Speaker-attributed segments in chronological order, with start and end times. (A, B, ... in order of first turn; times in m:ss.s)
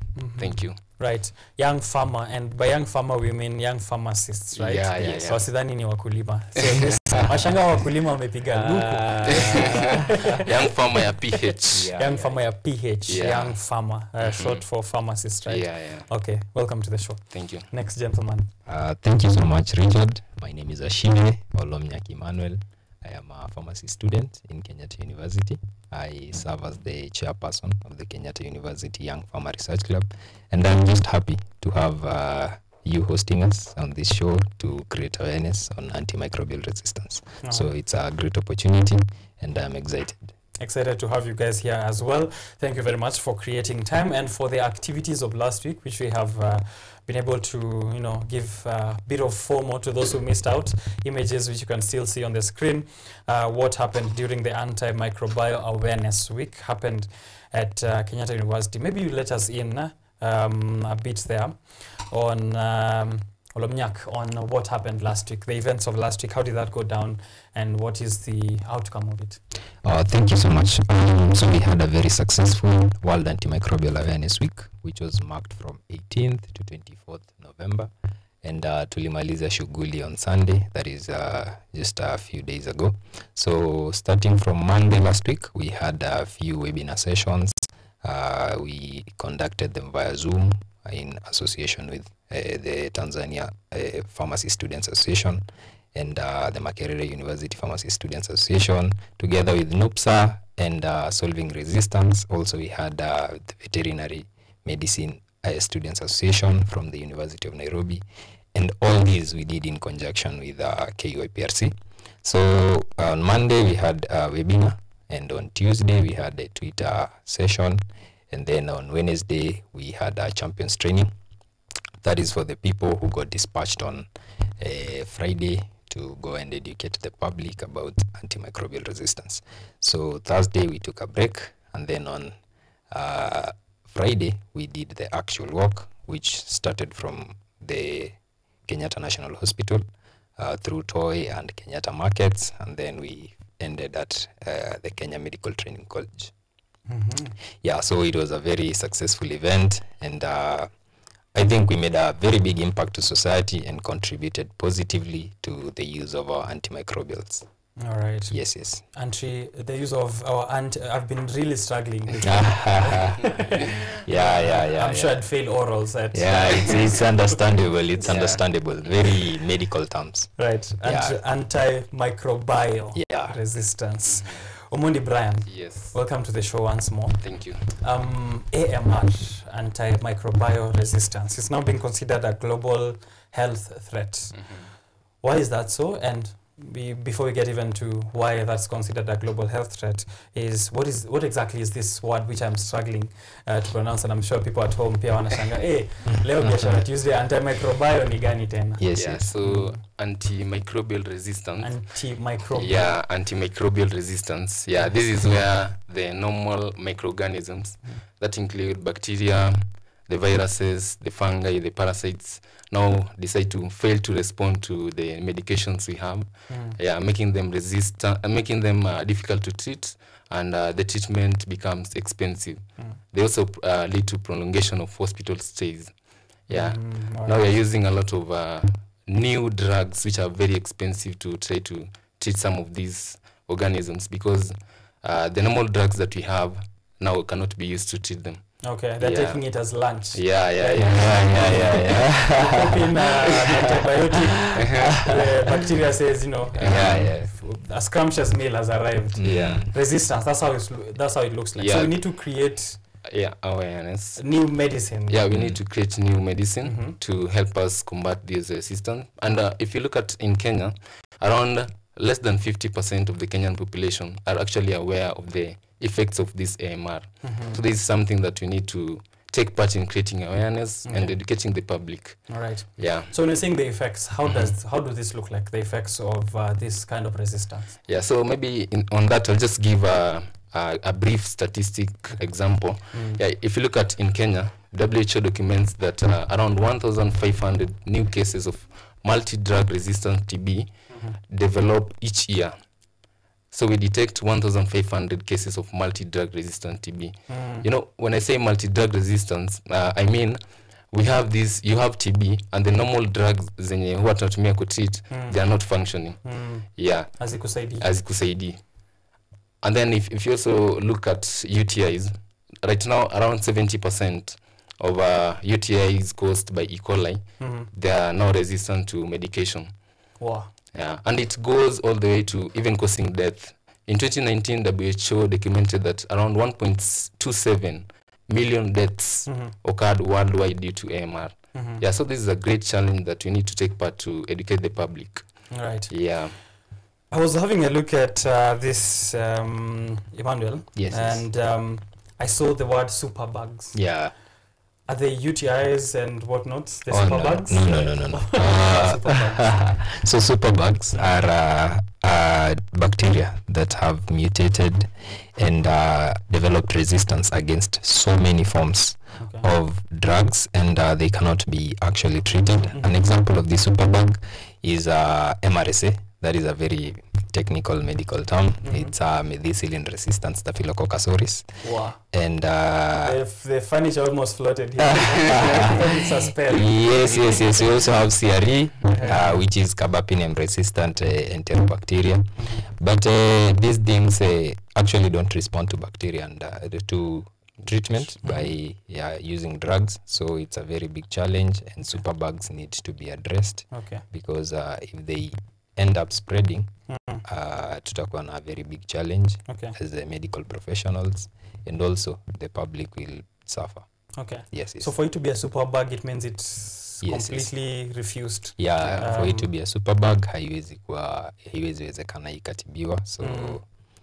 0:00.2-0:10.4 A
0:00.4-0:00.8 B
0:04.5-0:05.4 B
0:05.0-0:05.4 C
0:06.7-0:07.4 C
0:08.5-0:10.4 C
0:09.5-0:11.9 B
0:11.7-0:12.4 C
0:11.9-0:18.5 A
0:13.1-0:13.6 B
0:14.2-0:14.6 B
0:15.5-0:16.1 B
0:17.3-0:17.7 B
0:18.6-0:40.3 C
0:37.4-0:37.7 A
0:40.6-1:09.4 A
1:09.8-1:17.9 C
1:18.4-2:01.1 C
2:02.0-2:04.1 C
2:04.6-2:12.3 C
2:12.9-2:19.8 C
2:20.4-2:26.3 C
2:26.9-2:27.4 A
2:27.6-2:30.7 C
2:31.3-2:37.5 C
2:37.8-2:38.4 A
2:38.3-2:38.8 C
2:38.9-2:48.4 A
2:42.2-2:45.2 C
2:46.1-2:51.2 C
2:50.4-3:04.6 A
2:52.9-2:53.4 C
2:54.1-2:54.4 B
2:55.5-2:56.0 B
2:57.2-2:57.6 B
3:05.2-3:18.8 A
3:18.8-3:19.3 C
3:18.9-3:21.8 B
3:19.4-3:19.8 A
3:21.6-3:22.9 A
3:22.5-3:45.9 B
3:36.5-3:36.8 A
3:46.5-3:59.4 B
3:46.5-3:47.4 A
3:58.6-4:12.8 A
4:00.1-4:02.1 B
4:00.8-4:05.6 C
4:04.5-4:05.0 B
4:06.6-4:07.1 B
4:06.6-4:07.3 C
4:09.2-4:09.7 C
4:09.2-4:09.6 B
4:11.6-4:12.0 B
4:13.0-4:14.2 B
4:14.2-4:15.2 A
4:15.1-4:33.1 B
4:15.3-4:15.6 C
4:16.6-4:17.0 A
4:27.2-4:27.6 A
4:30.8-4:31.2 A
4:32.3-4:37.8 A
4:34.2-4:34.5 B
4:37.9-4:50.7 B
4:42.9-4:43.2 A
4:50.9-4:51.2 A
4:51.3-4:52.6 B
4:53.5-5:06.2 B
4:57.3-4:57.7 A
5:05.1-5:05.4 A
5:06.2-5:07.9 A
5:06.7-5:08.6 B
5:09.6-5:19.7 B
5:17.4-5:17.7 A
5:20.2-5:20.5 A
5:20.7-5:35.3 B
5:29.3-5:29.5 A
5:31.5-5:31.8 A
5:35.5-5:35.9 A
5:35.9-5:36.4 B
5:37.1-5:43.8 A
5:40.8-5:41.2 C
5:43.7-5:44.1 C
5:44.9-5:49.9 A
5:46.9-6:13.2 C
5:59.2-5:59.5 A
6:08.6-6:08.9 A
6:11.6-6:12.0 A
6:13.0-6:17.5 A
6:14.8-6:36.7 C
6:18.9-6:19.3 A
6:22.4-6:22.7 A
6:33.7-6:34.0 A
6:36.9-6:37.2 A
6:37.2-6:43.9 C
6:39.5-6:39.8 A
6:44.2-6:49.5 A
6:44.5-6:44.9 C
6:47.0-6:47.5 C
6:48.6-6:53.6 C
6:48.8-6:49.1 B
6:53.2-6:53.6 A